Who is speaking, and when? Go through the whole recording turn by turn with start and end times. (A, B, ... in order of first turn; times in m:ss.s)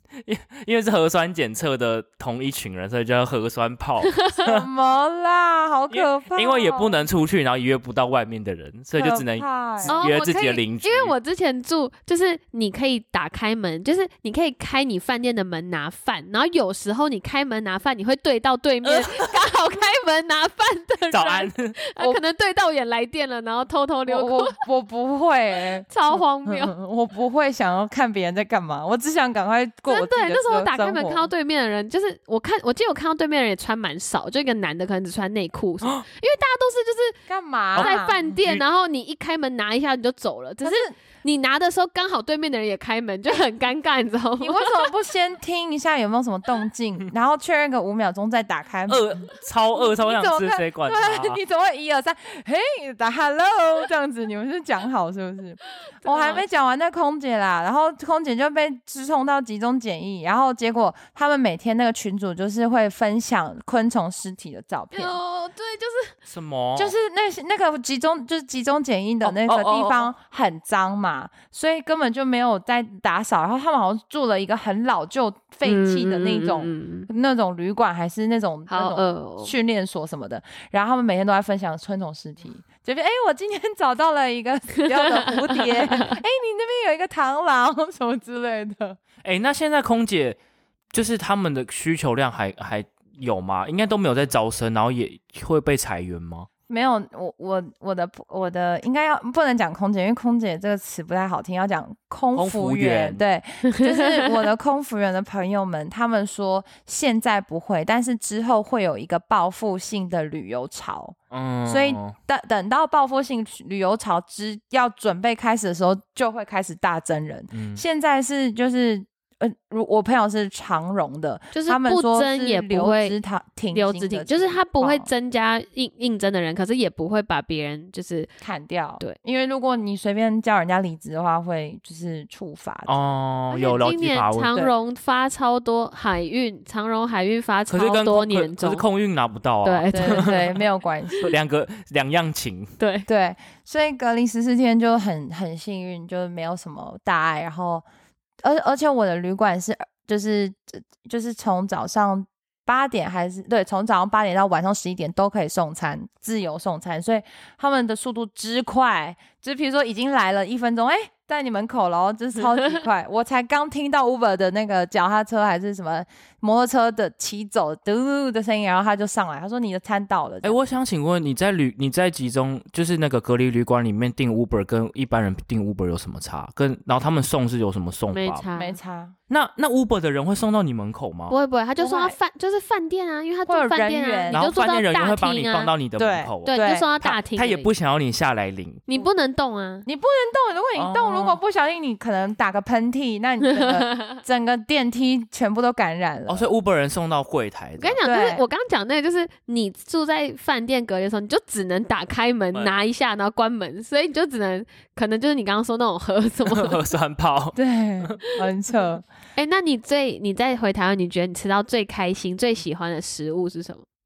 0:00.2-0:04.7 A
0:04.4-0:07.0 B
0:05.9-0:11.2 A
0:09.0-0:10.0 B
0:09.9-0:24.6 C
0:18.8-0:19.3 A
0:21.1-0:21.8 A
0:24.1-0:31.3 B
0:25.9-0:26.8 C
0:29.9-0:37.2 C
0:37.3-0:38.2 B
0:37.8-0:38.6 A
0:37.8-0:44.9 C
0:40.6-0:40.9 B
0:44.4-1:05.2 B
0:48.9-0:51.4 A
0:56.0-0:56.4 C
1:04.9-1:06.2 C
1:06.3-1:07.0 A
1:06.8-1:29.0 B
1:09.2-1:10.1 C
1:15.6-1:17.1 C
1:18.7-1:19.5 C
1:24.9-1:26.2 C
1:29.2-1:30.4 A
1:30.9-1:36.5 A
1:36.7-2:05.1 B
1:42.4-1:43.2 A
1:43.7-1:44.4 C
1:51.3-1:52.2 A
1:57.5-1:57.8 A
2:01.5-2:03.2 C
2:03.7-2:08.3 C
2:08.4-2:12.9 B
2:12.9-2:14.5 A
2:13.5-2:18.8 C
2:17.7-2:20.6 A
2:19.6-2:20.4 C
2:19.9-2:21.3 B
2:21.2-2:22.8 A
2:22.8-2:23.1 C
2:23.1-2:27.8 B
2:28.4-2:50.6 B
2:50.4-2:58.4 A
2:58.1-2:58.8 C
2:58.6-2:59.2 B
2:59.3-3:01.4 A
3:01.3-3:05.7 C
3:01.8-3:02.2 B
3:03.5-3:04.4 B
3:04.3-3:08.8 A
3:06.0-3:06.9 B
3:06.5-3:07.7 C
3:08.9-3:09.9 C
3:09.9-3:16.5 B
3:10.8-3:11.4 A
3:13.5-3:14.2 C
3:16.3-3:18.0 A
3:17.8-3:26.8 C
3:18.0-3:18.4 B
3:26.5-3:28.2 A
3:27.6-3:29.0 B
3:29.4-3:33.8 C